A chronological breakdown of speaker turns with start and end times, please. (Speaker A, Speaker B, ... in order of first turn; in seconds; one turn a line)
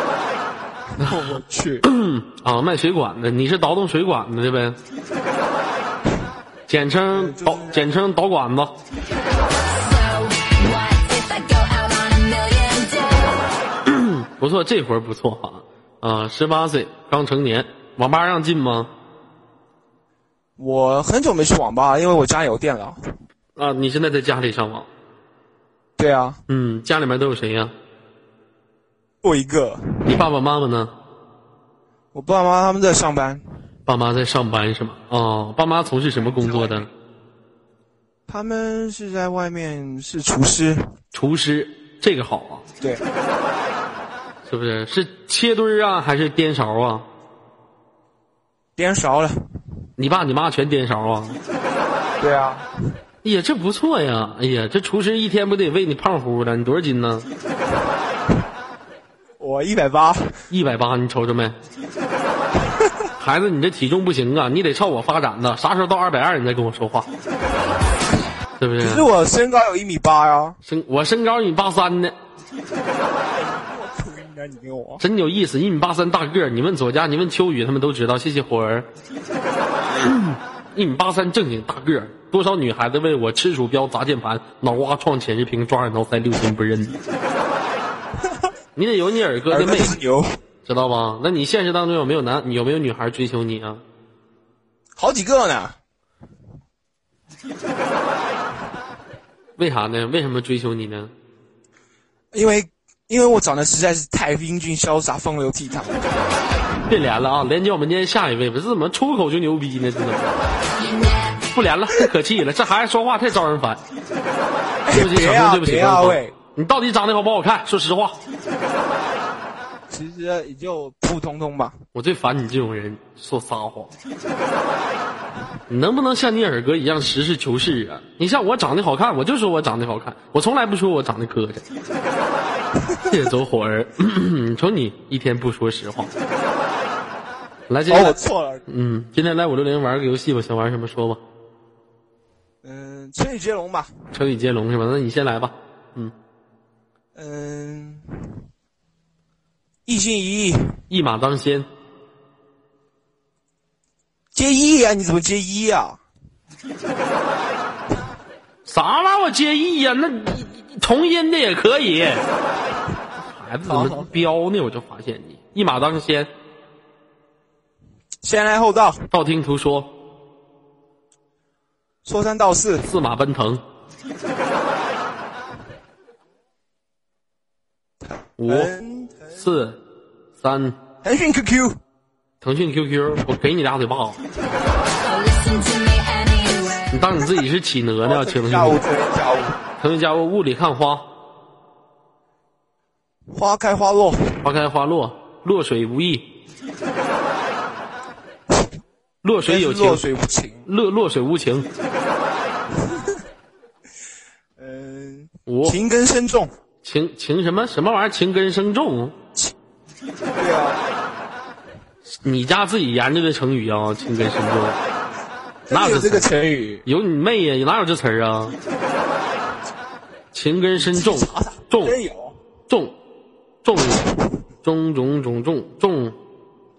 Speaker A: 1.0-1.9
Speaker B: 1.8-4.8
Speaker B: 6.7-8.8
Speaker A: 7.1-7.9
Speaker C: 9.5-13.5
Speaker B: 13.9-18.9
Speaker A: 20.6-23.0
Speaker B: 23.6-24.9
Speaker A: 26.0-26.4
Speaker B: 26.5-27.7
Speaker A: 29.2-30.2
Speaker B: 30.1-30.9
Speaker A: 32.1-33.4
Speaker B: 33.9-36.9
Speaker A: 36.1-36.9
Speaker A: 38.3-41.0
Speaker B: 41.1-42.6
Speaker B: 44.5-47.1
Speaker A: 48.8-49.4
Speaker B: 50.0-51.4
Speaker A: 52.2-52.7
Speaker B: 53.2-57.3
Speaker A: 59.4-60.3
Speaker B: 60.5-61.6
Speaker B: 63.2-67.1
Speaker B: 68.6-69.0
Speaker A: 68.8-70.6
Speaker B: 70.6-72.2
Speaker A: 73.3-75.0
Speaker B: 75.0-78.9
Speaker B: 79.9-87.0
Speaker B: 88.8-90.0
Speaker A: 89.5-90.4
Speaker B: 90.7-93.8
Speaker A: 95.0-95.8
Speaker B: 99.6-101.1
Speaker A: 102.3-106.3
Speaker B: 106.9-110.4
Speaker C: 110.8-111.4
Speaker B: 111.5-113.8
Speaker A: 114.8-116.3
Speaker B: 114.9-118.2
Speaker A: 119.9-121.8
Speaker B: 121.9-124.0
Speaker B: 125.7-131.6
Speaker A: 132.9-133.2
Speaker B: 133.1-136.1
Speaker B: 137.7-141.2
Speaker A: 137.9-138.7
Speaker A: 142.6-143.9
Speaker B: 144.1-146.1
Speaker A: 147.2-148.4
Speaker A: 149.9-150.8
Speaker B: 150.9-151.7
Speaker A: 154.3-156.0
Speaker B: 158.7-162.2
Speaker B: 163.2-166.3
Speaker A: 163.7-164.1
Speaker A: 168.2-169.1
Speaker B: 169.1-169.9
Speaker A: 172.1-172.9
Speaker B: 172.8-173.6
Speaker A: 178.0-179.4
Speaker B: 178.4-178.7
Speaker B: 179.3-179.8
Speaker B: 180.4-180.8
Speaker A: 181.0-181.8
Speaker B: 182.4-184.2
Speaker C: 185.0-186.9
Speaker B: 186.9-188.8
Speaker A: 188.0-189.6
Speaker B: 189.8-191.1
Speaker A: 193.3-194.4
Speaker B: 194.4-196.3
Speaker B: 199.2-200.1
Speaker A: 199.5-200.7
Speaker B: 200.7-201.7
Speaker A: 202.8-203.2
Speaker A: 204.6-206.5
Speaker B: 205.5-205.8
Speaker B: 206.8-209.2
Speaker A: 210.4-210.8
Speaker B: 212.1-214.8
Speaker A: 215.7-216.8
Speaker B: 215.7-216.3
Speaker B: 216.8-218.6
Speaker B: 220.3-222.0
Speaker A: 220.8-222.4
Speaker B: 222.7-223.0
Speaker B: 223.6-224.0
Speaker B: 224.6-226.2